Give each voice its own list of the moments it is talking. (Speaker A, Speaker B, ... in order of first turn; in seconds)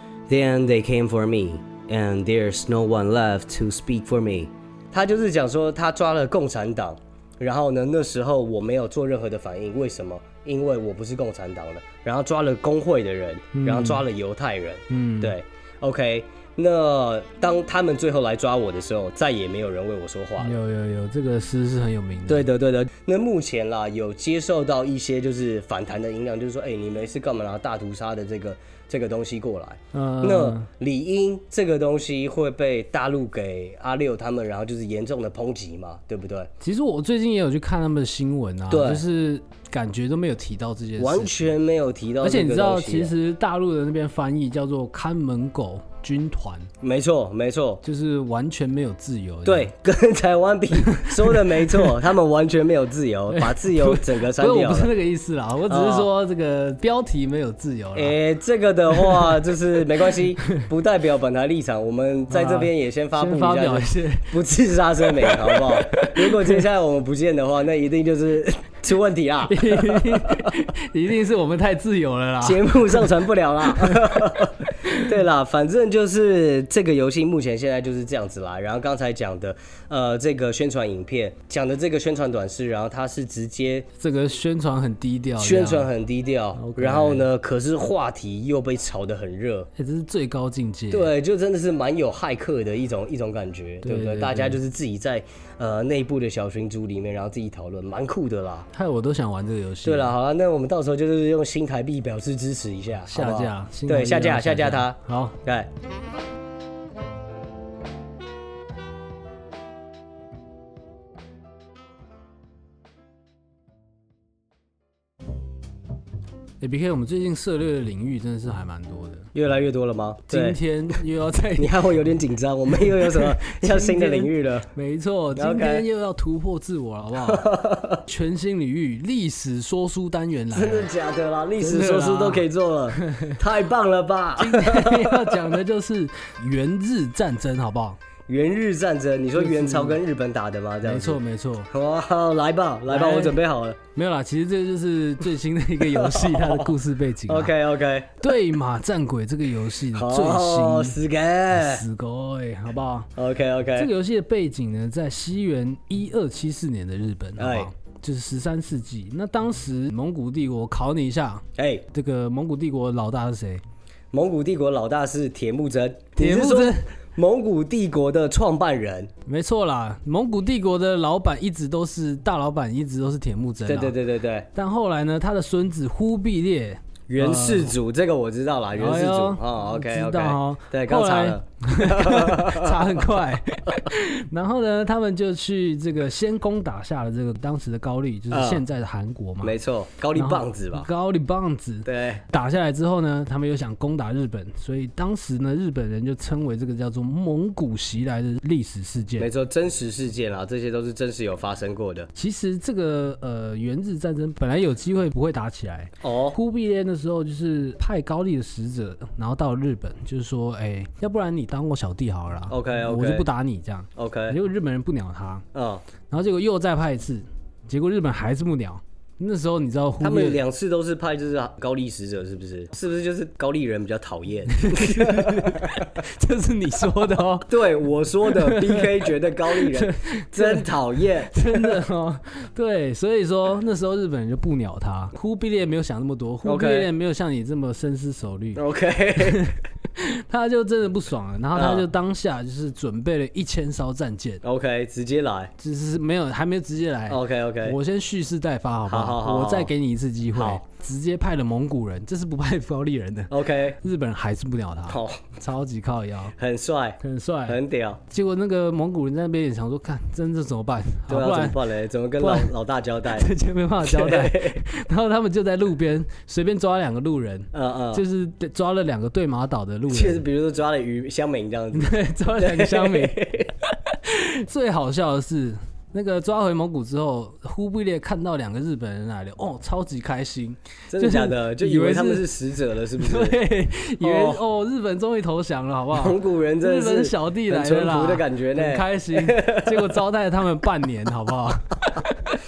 Speaker A: 0.3-20.5, 22.3-36.5, 38.7-39.0, 41.0-43.1, 46.8-47.8, 49.5-54.9, 55.7-56.1, 58.0-70.5, 72.4-83.9, 85.4-89.7, 90.9-98.7, 99.8-105.7, 119.3-120.6, 121.6-124.7, 125.4-125.9, 127.2-128.1, 130.5-135.4, 138.3-143.8, 145.8-146.7, 147.3-148.3, 149.9-151.8, 153.2-153.9, 157.4-157.7, 161.6-161.8, 164.1-169.1, 173.7-174.5, 177.1-183.0, 188.3-188.6, 189.4-190.9, 191.8-192.2, 199.2-202.1, 206.0-206.4, 212.5-213.3, 214.0-214.4, 215.5-215.8, 220.0-225.8, 227.5-231.8, 236.4-236.9, 238.6-239.5, 241.5-241.9, 244.4-245.5, 247.1-247.8, 248.9-249.7, 250.3-250.6, 253.3-253.8, 254.9-255.3, 256.4-258.0, 261.1-263.3, 263.8-264.6, 267.5-268.0, 269.9-273.5, 280.9-283.4, 284.0-284.4, 285.9-290.0
Speaker B: 13.5-14.0, 14.9-15.3, 20.4-22.5, 29.9-30.7, 36.6-41.5, 42.2-46.7, 47.8-49.7, 50.8-51.9, 53.3-58.2, 58.9-59.5, 62.3-64.3, 65.1-66.6, 69.5-73.1, 73.7-74.1, 74.8-75.1, 84.0-85.9, 86.5-87.3, 89.8-91.1, 93.8-94.6, 98.7-100.1, 103.1-105.4, 116.6-119.3, 120.3-121.9, 122.7-127.5, 128.1-130.9, 131.6-133.4, 134.4-138.0, 139.4-140.0, 140.8-141.7, 142.9-143.4, 143.9-147.5, 148.2-151.0, 151.5-153.1, 153.8-163.6, 166.2-166.9, 169.3-174.0, 174.5-177.7, 178.8-189.6, 190.2-199.3, 202.2-215.5, 216.1-220.4, 224.5-227.5, 228.2-230.7, 231.2-238.6, 239.2-244.4, 245.6-256.4, 257.0-261.6, 262.2-262.5, 263.1-270.2, 271.7-282.3, 283.0-292.4